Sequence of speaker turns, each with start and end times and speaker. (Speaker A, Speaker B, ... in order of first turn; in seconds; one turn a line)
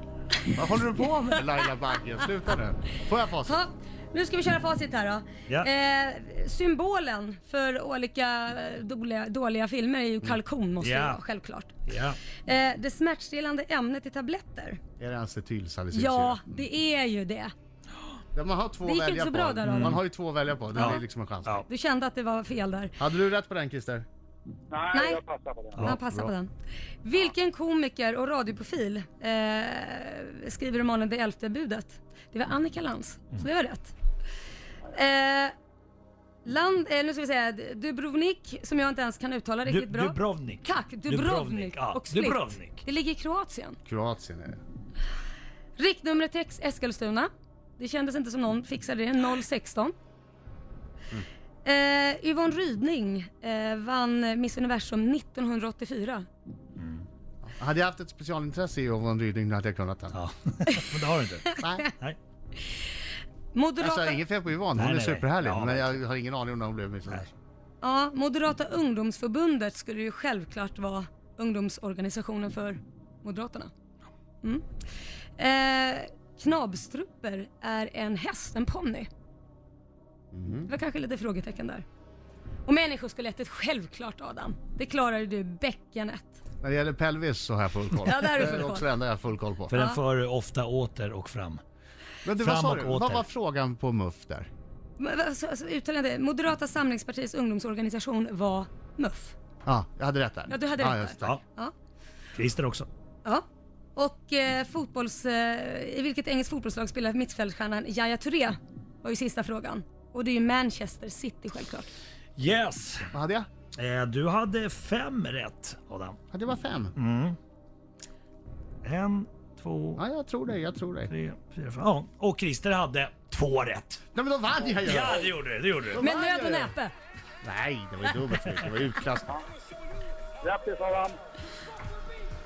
Speaker A: 0.4-1.4
Speaker B: 0.5-3.6
Speaker A: 3.4-11.8
Speaker C: 10.8-11.2
Speaker C: 11.9-12.2
Speaker A: 12.4-14.8
Speaker B: 15.0-16.4
Speaker A: 15.9-17.5
Speaker B: 18.3-21.6
Speaker A: 18.8-20.0
Speaker C: 19.6-20.0
Speaker C: 20.7-21.6
Speaker A: 20.7-21.0
Speaker A: 21.7-23.0
Speaker B: 23.0-24.1
Speaker D: 24.7-25.8
Speaker A: 24.9-25.2
Speaker A: 25.8-26.5
Speaker B: 25.8-26.3
Speaker A: 27.0-33.9
Speaker A: 34.9-35.5
Speaker A: 36.4-43.8
Speaker C: 39.7-42.8
Speaker B: 43.9-44.6
Speaker A: 45.8-49.9
Speaker A: 51.6-56.3
Speaker C: 56.8-57.0
Speaker B: 57.4-60.2
Speaker C: 60.1-62.2
Speaker B: 61.6-61.9
Speaker A: 63.5-64.2
Speaker B: 63.8-67.3
Speaker C: 64.7-66.0
Speaker A: 67.8-73.7
Speaker A: 75.4-79.1
Speaker B: 80.3-80.7
Speaker A: 80.7-81.8
Speaker A: 82.7-86.4
Speaker B: 86.6-89.7
Speaker A: 88.0-88.9
Speaker C: 89.7-91.6
Speaker A: 89.7-90.0
Speaker B: 92.2-94.5
Speaker C: 92.3-93.2
Speaker A: 95.0-99.3
Speaker B: 99.6-101.3
Speaker A: 100.5-101.7
Speaker C: 102.3-102.9
Speaker A: 104.0-111.9
Speaker C: 112.4-113.1
Speaker B: 113.1-113.5
Speaker C: 113.8-116.2
Speaker B: 116.3-117.0
Speaker C: 117.0-117.4
Speaker C: 118.8-120.0
Speaker B: 120.0-121.1
Speaker C: 121.1-124.0
Speaker B: 124.1-125.3
Speaker C: 124.8-126.0
Speaker B: 125.9-126.7
Speaker A: 125.9-126.9
Speaker B: 127.4-129.3
Speaker D: 130.4-131.2